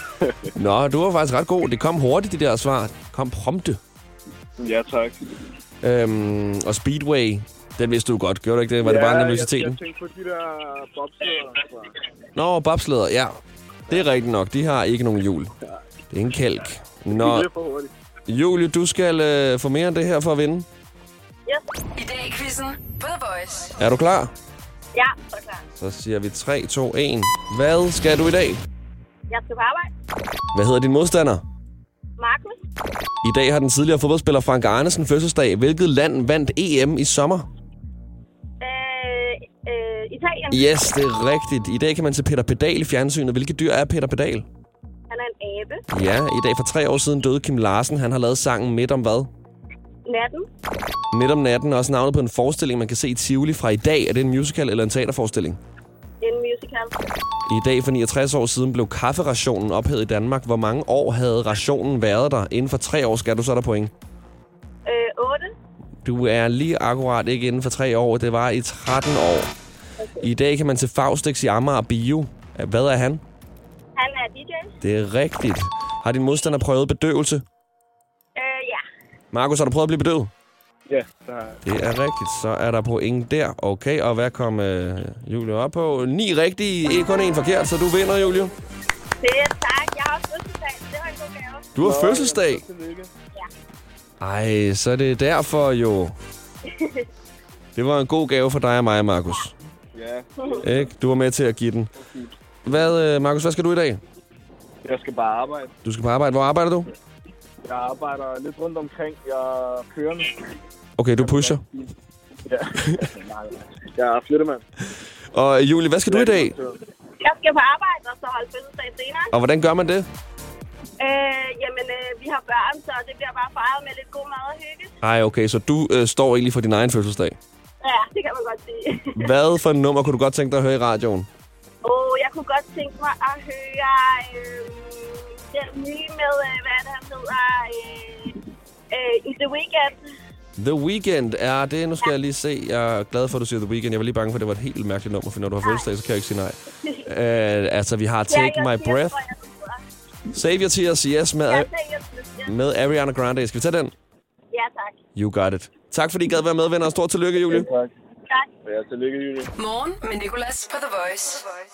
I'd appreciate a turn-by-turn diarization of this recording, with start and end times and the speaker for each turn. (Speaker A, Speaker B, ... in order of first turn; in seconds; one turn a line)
Speaker A: 0.5-3.8
Speaker B: 4.6-5.2
Speaker A: 5.8-9.8
Speaker B: 8.8-11.9
Speaker A: 12.3-13.3
Speaker A: 13.9-15.5
Speaker A: 16.1-17.5
Speaker B: 17.1-17.9
Speaker A: 18.3-20.7
Speaker C: 21.9-23.7
Speaker A: 23.8-24.3
Speaker D: 24.9-25.6
Speaker A: 25.8-28.6
Speaker D: 29.3-29.9
Speaker A: 30.5-31.4
Speaker D: 32.2-32.6
Speaker A: 33.2-37.5
Speaker D: 38.6-40.6
Speaker A: 40.5-44.5
Speaker D: 45.1-45.8
Speaker A: 45.9-49.3
Speaker D: 50.0-50.5
Speaker A: 51.1-55.6
Speaker D: 56.2-56.9
Speaker A: 57.5-63.9
Speaker D: 64.8-65.5
Speaker A: 66.0-69.5
Speaker A: 70.2-73.2
Speaker D: 74.0-74.7
Speaker A: 74.8-77.4
Speaker D: 78.3-78.8
Speaker A: 79.3-80.3
Speaker B: 80.9-81.6
Speaker A: 81.6-88.5
Speaker D: 89.2-91.7
Speaker A: 91.7-92.6
Speaker B: 91.8-93.1
Speaker A: 94.2-96.2
Speaker D: 96.7-97.0
Speaker A: 97.8-99.5
Speaker B: 99.9-100.9
Speaker A: 100.6-101.9
Speaker B: 102.0-102.3
Speaker A: 102.6-104.0
Speaker B: 104.8-105.7
Speaker A: 105.8-106.9
Speaker B: 107.6-110.4
Speaker A: 111.0-111.6
Speaker B: 111.2-111.5
Speaker B: 112.5-114.6
Speaker A: 114.9-116.5
Speaker B: 116.1-116.8
Speaker D: 117.2-119.3
Speaker A: 119.3-120.1
Speaker D: 121.0-125.0
Speaker A: 125.0-127.3
Speaker D: 127.8-129.3
Speaker A: 129.1-131.3
Speaker D: 131.8-140.0
Speaker A: 140.6-149.2
Speaker D: 148.3-149.8
Speaker A: 150.3-151.7
Speaker D: 151.5-152.5
Speaker A: 152.4-153.9
Speaker D: 154.5-155.0
Speaker A: 155.2-157.7
Speaker B: 157.5-157.9
Speaker B: 158.6-159.5
Speaker C: 159.6-161.6